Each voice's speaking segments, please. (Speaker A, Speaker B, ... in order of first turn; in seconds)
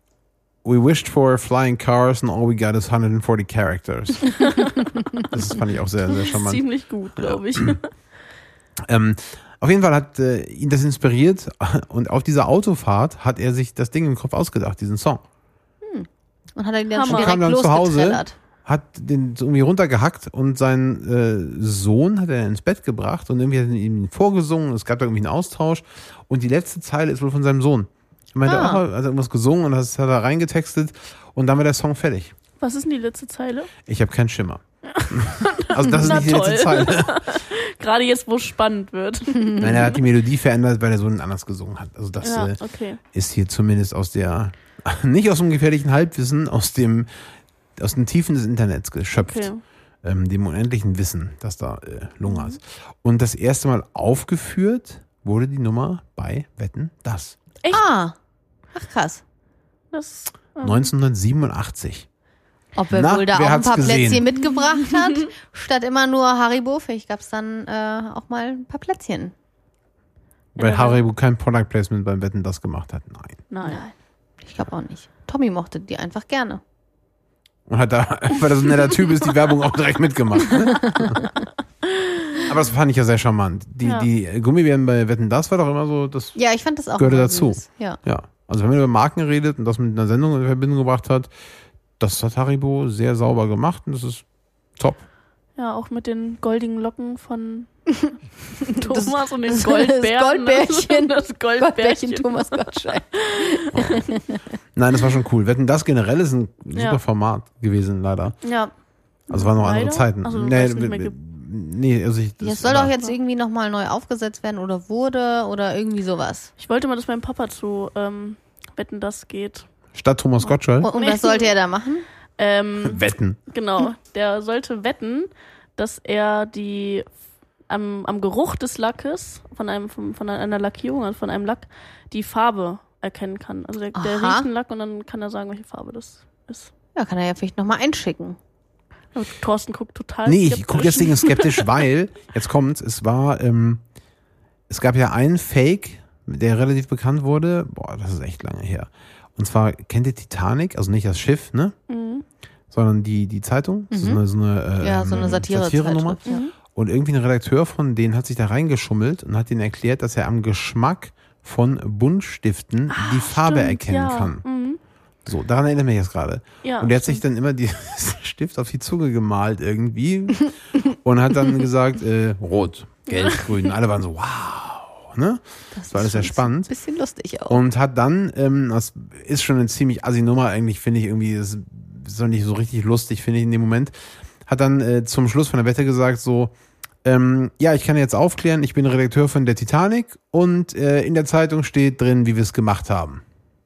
Speaker A: 0.6-4.3, 5.2-6.6, 7.2-7.7, 8.9-15.2, 17.1-32.3, 33.9-37.1, 39.6-42.6, 43.1-47.1, 47.8-49.5, 50.0-57.4, 60.6-62.1, 62.9-64.3, 70.6-73.4, 77.7-81.2, 82.4-86.4, 87.0-91.3, 92.0-94.2, 94.8-95.0, 103.7-104.1, 104.7-108.4, 109.3-112.9, 119.9-120.9, 122.8-123.4, 140.3-143.8, 144.7-151.8, 152.7-164.4, 165.2-176.7, 177.5-183.9, 184.5-193.2
Speaker B: 4.4-4.9, 6.1-7.9, 16.9-17.4, 32.6-33.7, 34.9-40.1, 42.2-43.0, 49.1-49.6, 52.3-52.6, 59.9-60.9, 64.5-65.0, 70.6-71.0, 73.5-73.8, 83.8-84.1, 95.6-104.0, 106.8-107.0, 108.4-108.7, 109.3-111.1, 116.6-119.7, 120.9-121.6, 122.4-127.1, 127.7-136.7, 139.2-141.8, 151.9-152.2, 155.1-155.4, 156.3-156.5, 162.9-164.8, 166.6-167.2, 173.1-173.7
Speaker C: 15.8-18.4, 28.4-28.8, 57.7-58.2, 58.7-59.2, 62.8-69.3, 73.6-76.6, 86.3-88.0, 98.8-104.4, 112.4-116.5, 120.8-122.1, 133.9-134.5, 137.0-138.4, 153.9-154.2, 154.8-156.5, 175.7-177.6